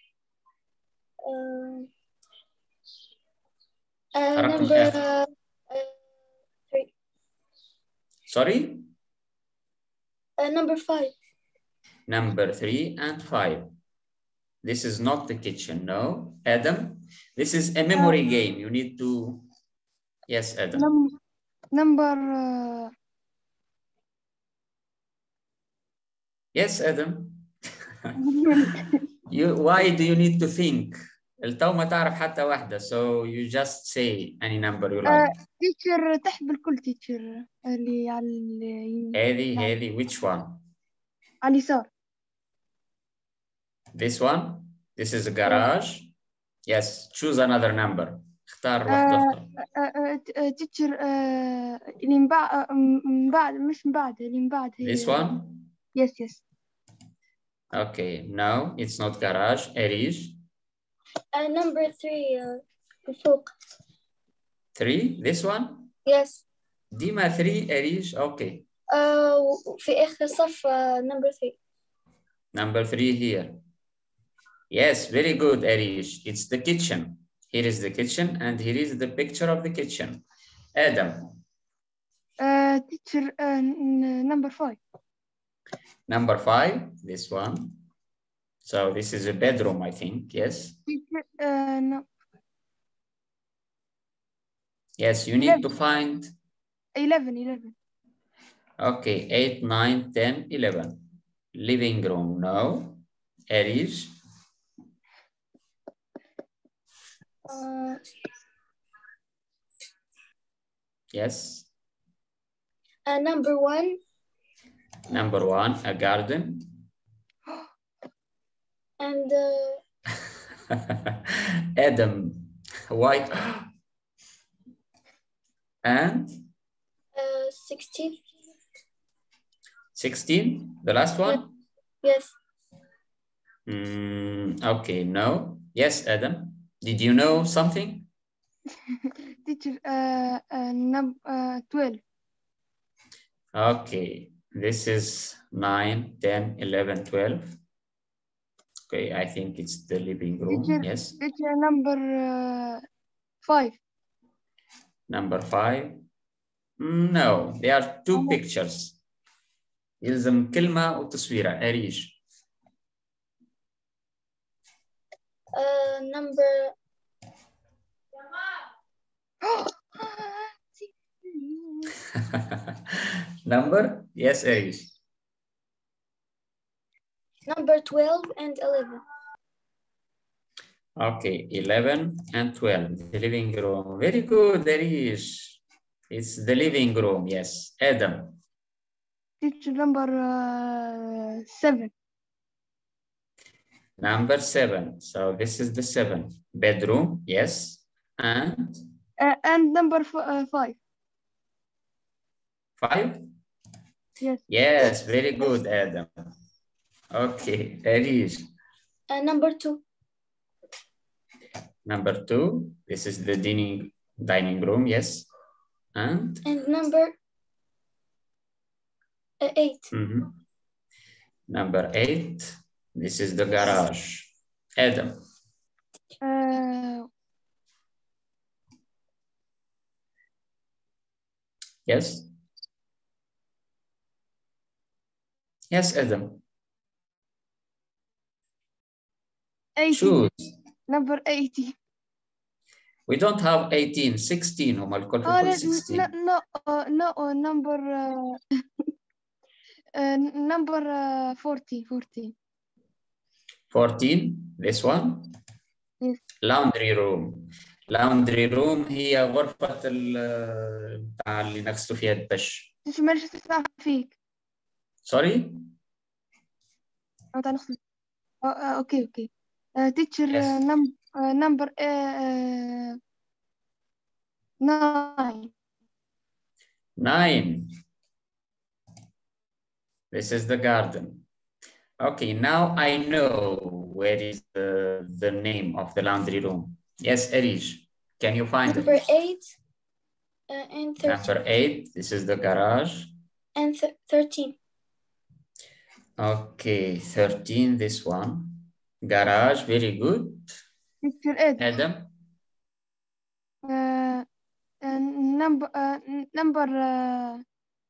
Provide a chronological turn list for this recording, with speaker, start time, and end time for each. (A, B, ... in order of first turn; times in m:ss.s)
0:01.2-0:01.9 A
0:04.1-0:06.0 A
0:04.3-0:05.0 B
0:08.3-0:08.9 B
0:10.4-0:11.1 A
0:12.1-0:13.7 B
0:14.6-0:19.4 B
0:20.3-0:20.9 B
0:20.8-0:21.1 C
0:21.7-0:22.9 C
0:26.5-0:27.5 B
0:28.2-0:29.0 C
0:29.3-0:35.3 B
0:35.0-0:39.7 C
0:39.1-0:40.6 B
0:41.4-0:41.9 C
0:43.9-0:46.1 B
0:46.6-0:49.5 B
0:48.9-0:55.2 C
0:54.8-0:55.7 B
0:55.9-0:56.4 C
0:57.7-1:00.4 B
1:01.3-1:03.5 A
1:04.8-1:05.9 B
1:06.0-1:06.4 A
1:06.9-1:08.6 B
1:08.9-1:11.6 A
1:12.5-1:13.6 B
1:14.7-1:20.2 B
1:20.8-1:21.3 B
1:22.4-1:24.8 C
1:26.1-1:27.8 B
1:28.6-1:30.8 B
1:30.9-1:32.0 C
1:35.0-1:36.3 B
1:37.0-1:37.7 C
1:38.8-1:41.0 B
1:41.5-1:44.2 B
1:47.5-1:48.0 A
1:51.1-1:51.7 B
1:53.0-1:54.0 A
1:55.1-1:56.7 B
1:59.0-1:59.8 A
2:01.8-2:03.7 B
2:05.8-2:06.5 B
2:07.1-2:08.2 A
2:09.9-2:11.5 B
2:12.0-2:12.4 A
2:13.7-2:18.1 B
2:18.9-2:22.0 C
2:23.5-2:27.5 B
2:28.9-2:31.2 B
2:30.5-2:32.8 C
2:33.4-2:33.8 C
2:35.1-2:36.0 B
2:36.8-2:39.0 B
2:38.1-2:38.4 C
2:40.0-2:42.2 B
2:45.5-2:46.7 A
2:49.4-2:51.9 C
2:53.4-2:54.9 B
2:57.4-2:59.0 A
3:01.0-3:08.4 B
3:09.4-3:11.9 C
3:14.0-3:18.8 B
3:19.2-3:20.8 C
3:22.8-3:23.3 B
3:24.5-3:26.1 B
3:27.1-3:28.5 B
3:29.1-3:29.8 A
3:31.8-3:35.2 B
3:35.9-3:36.4 B
3:36.4-3:37.2 A
3:39.4-3:39.9 A
3:39.9-3:40.3 B
3:41.5-3:45.2 B
3:46.2-3:47.1 C
3:51.8-3:52.3 B
3:55.7-3:56.4 B
3:59.8-4:00.2 C
3:59.9-4:00.5 B
4:00.9-4:01.8 C
4:03.1-4:06.1 B
4:05.2-4:08.4 C
4:10.0-4:12.3 C
4:13.7-4:15.3 B
4:16.4-4:22.7 B
4:22.8-4:24.1 C
4:25.0-4:25.7 B
4:27.3-4:27.8 C
4:28.4-4:33.0 C
4:30.3-4:30.6 B
4:34.6-4:35.5 C
4:37.0-4:37.7 B
4:40.1-4:41.2 B
4:42.0-4:49.0 B
4:48.6-4:49.5 A
4:50.5-4:51.3 A
4:51.0-4:53.1 B
4:53.6-4:54.6 A
4:56.2-5:00.6 B
5:01.0-5:01.6 C
5:01.6-5:02.1 B
5:03.6-5:04.2 C
5:04.8-5:07.4 C